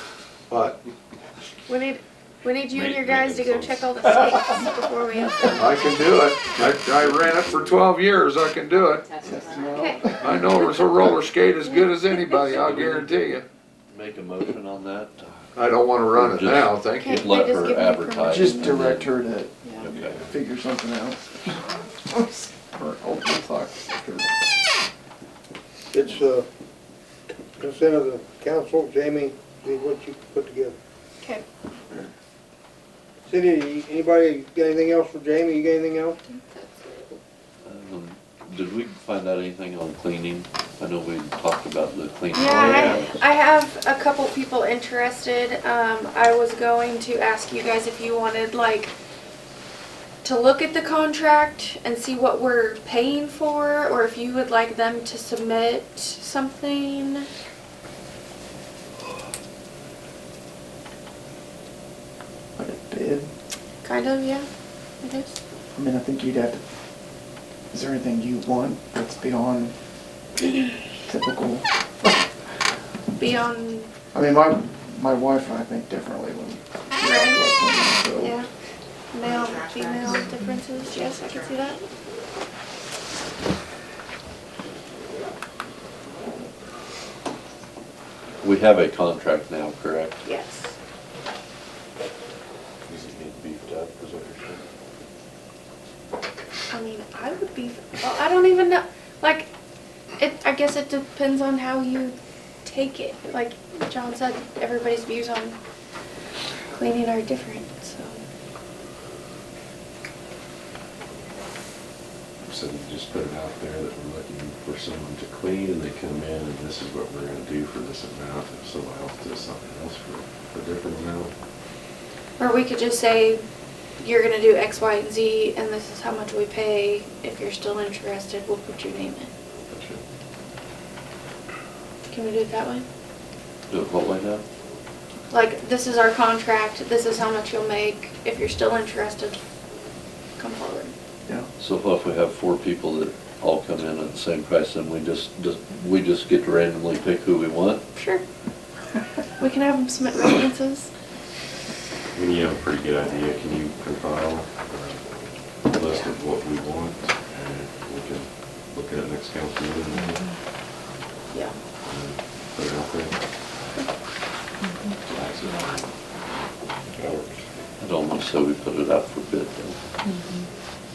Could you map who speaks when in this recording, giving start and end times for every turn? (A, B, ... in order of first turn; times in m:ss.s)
0:00.5-0:00.8 A
0:01.7-0:05.8 B
0:02.7-0:04.1 C
0:05.6-0:09.4 A
0:05.6-0:08.0 C
0:09.2-0:10.7 D
0:09.7-0:10.7 B
0:10.2-0:13.4 A
0:11.6-0:12.5 B
0:12.5-0:13.1 E
0:13.9-0:15.5 E
0:15.6-0:17.2 A
0:16.1-0:19.2 E
0:17.0-0:18.8 B
0:18.3-0:24.3 D
0:19.6-0:19.9 B
0:19.8-0:20.2 E
0:25.9-0:26.5 F
0:27.6-0:30.8 F
0:33.3-0:36.2 F
0:36.2-0:37.1 B
0:37.6-0:43.1 E
0:42.3-0:48.9 B
0:50.2-0:57.3 B
1:02.6-1:03.3 D
1:03.8-1:04.5 B
1:05.0-1:05.4 B
1:05.8-1:06.6 D
1:07.7-1:09.8 D
1:11.0-1:12.1 D
1:13.2-1:13.9 B
1:14.1-1:18.4 D
1:17.0-1:17.4 B
1:18.2-1:18.5 B
1:19.1-1:21.8 B
1:28.4-1:30.2 E
1:30.2-1:30.8 B
1:32.9-1:34.6 C
1:36.7-1:39.5 B
1:40.2-1:45.6 B
1:46.7-1:48.2 B
1:52.4-2:01.3 C
2:02.4-2:03.4 B
2:04.0-2:09.3 B
2:09.7-2:10.0 C
2:12.1-2:12.9 B
2:13.7-2:14.4 E
2:15.3-2:19.4 B
2:20.4-2:20.9 B
2:21.6-2:27.8 E
2:28.0-2:28.2 B
2:29.4-2:30.9 B
2:32.2-2:35.0 C
2:35.6-2:40.2 C
2:41.8-2:43.2 C
2:45.1-2:45.9 C
2:46.9-2:47.3 C
2:47.8-2:49.8 E